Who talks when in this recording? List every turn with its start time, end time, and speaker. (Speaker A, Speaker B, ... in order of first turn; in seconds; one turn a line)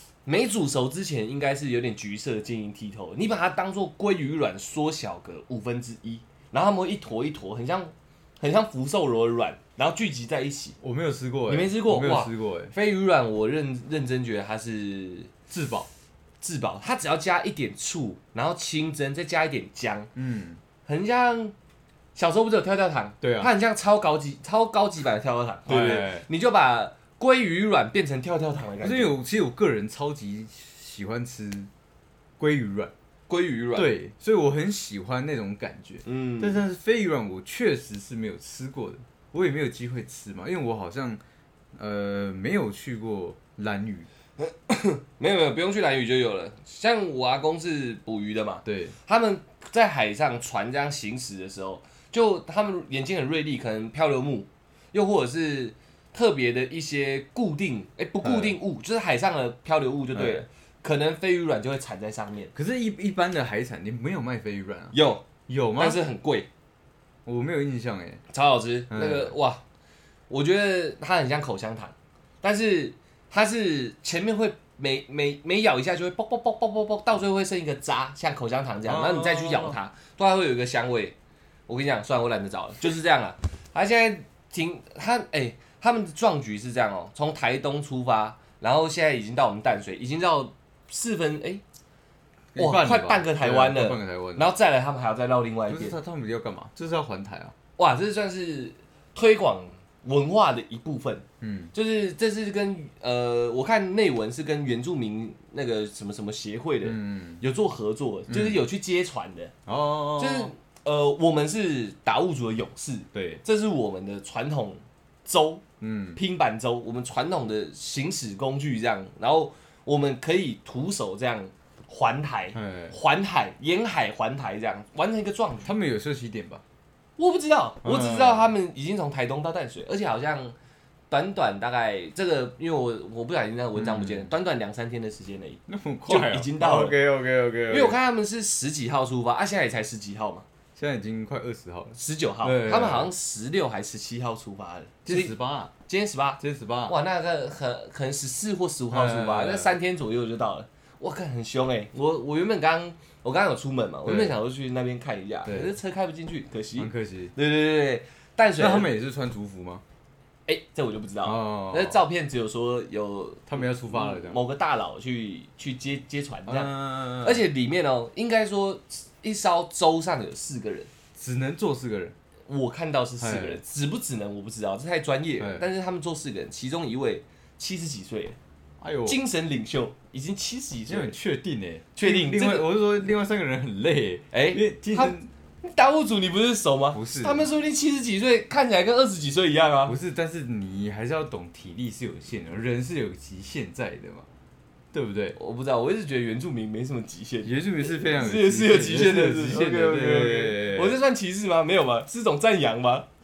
Speaker A: 0.2-10.8
Speaker B: 10.8-12.7
Speaker A: 11.5-15.3
Speaker B: 15.5-15.9
Speaker A: 16.4-20.1
Speaker B: 20.1-20.6
Speaker A: 20.9-21.5
Speaker A: 22.1-29.2
Speaker B: 23.2-23.5
Speaker B: 25.7-26.3
Speaker B: 28.8-31.7
Speaker B: 32.4-32.9
Speaker A: 33.3-33.9
Speaker B: 33.8-41.2
Speaker A: 36.1-36.6
Speaker B: 41.8-44.1
Speaker A: 44.4-62.5
Speaker B: 48.6-49.0
Speaker B: 58.2-58.6
Speaker B: 60.1-60.5
Speaker B: 62.5-65.0
Speaker A: 64.9-65.2
Speaker B: 65.5-66.0
Speaker A: 65.8-66.5
Speaker B: 67.2-68.2
Speaker A: 68.3-69.6
Speaker B: 68.9-69.3
Speaker A: 70.3-81.2
Speaker B: 78.9-79.8
Speaker A: 81.7-91.6
Speaker B: 92.5-94.5
Speaker A: 92.6-96.0
Speaker B: 95.7-97.5
Speaker A: 97.8-109.5
Speaker B: 101.4-101.7
Speaker B: 106.8-107.4
Speaker B: 108.3-108.7
Speaker B: 109.7-110.5
Speaker A: 110.2-115.6
Speaker B: 113.1-113.4
Speaker B: 115.8-116.2
Speaker A: 116.2-125.7
Speaker B: 122.5-123.0
Speaker B: 125.6-126.6
Speaker A: 127.2-130.6
Speaker B: 127.8-128.5
Speaker A: 131.1-137.0
Speaker B: 133.8-134.3
Speaker B: 135.7-138.0
Speaker A: 137.7-140.4
Speaker B: 140.8-143.1
Speaker A: 142.0-145.3
Speaker B: 145.1-145.7
Speaker A: 145.9-158.9
Speaker B: 146.4-146.9
Speaker B: 148.9-149.8
Speaker B: 154.1-154.4
Speaker B: 155.5-155.7
Speaker B: 156.8-157.3
Speaker B: 158.6-159.8
Speaker A: 160.5-170.9
Speaker B: 161.2-162.0
Speaker B: 163.5-164.4
Speaker B: 166.5-167.5
Speaker B: 171.2-172.2
Speaker A: 172.5-178.4
Speaker B: 173.2-173.6
Speaker B: 175.4-175.7
Speaker B: 178.8-179.2
Speaker A: 179.1-181.2
Speaker B: 180.9-185.3
Speaker A: 182.0-182.7
Speaker A: 184.3-190.0
Speaker B: 186.9-187.5
Speaker B: 189.9-194.3
Speaker B: 194.9-195.4
Speaker A: 195.4-203.1
Speaker B: 197.4-201.0